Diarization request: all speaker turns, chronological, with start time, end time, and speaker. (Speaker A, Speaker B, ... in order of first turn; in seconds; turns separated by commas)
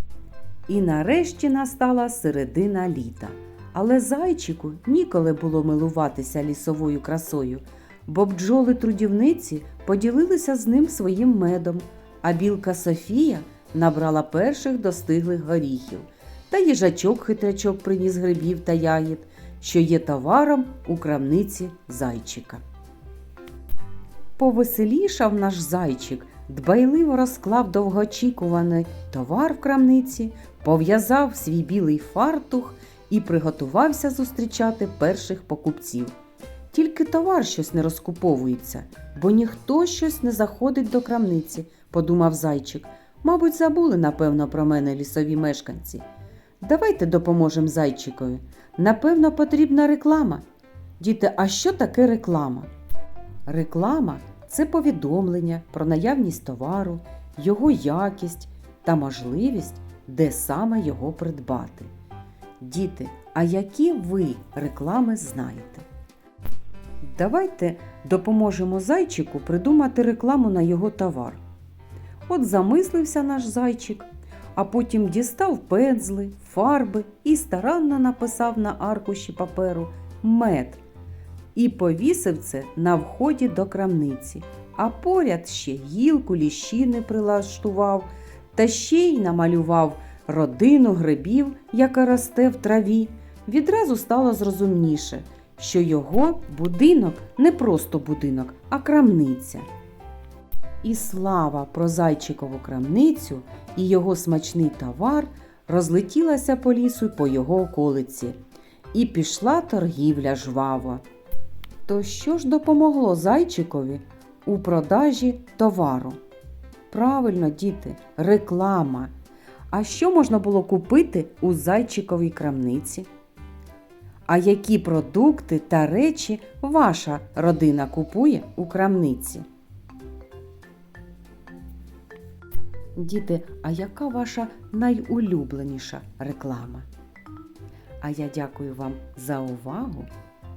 Speaker A: 0.7-22.6, Speaker A: 24.4-36.1, Speaker A: 36.7-46.0, Speaker A: 46.6-50.4, Speaker A: 51.0-52.7, Speaker A: 53.5-61.9, Speaker A: 62.6-65.8, Speaker A: 67.0-71.4, Speaker A: 72.3-80.8, Speaker A: 81.5-99.7, Speaker A: 100.8-108.4, Speaker A: 108.9-111.0, Speaker A: 111.8-116.2, Speaker A: 116.9-119.1, Speaker A: 119.7-123.1, Speaker A: 124.3-129.4, Speaker A: 132.9-136.8, Speaker A: 138.0-140.1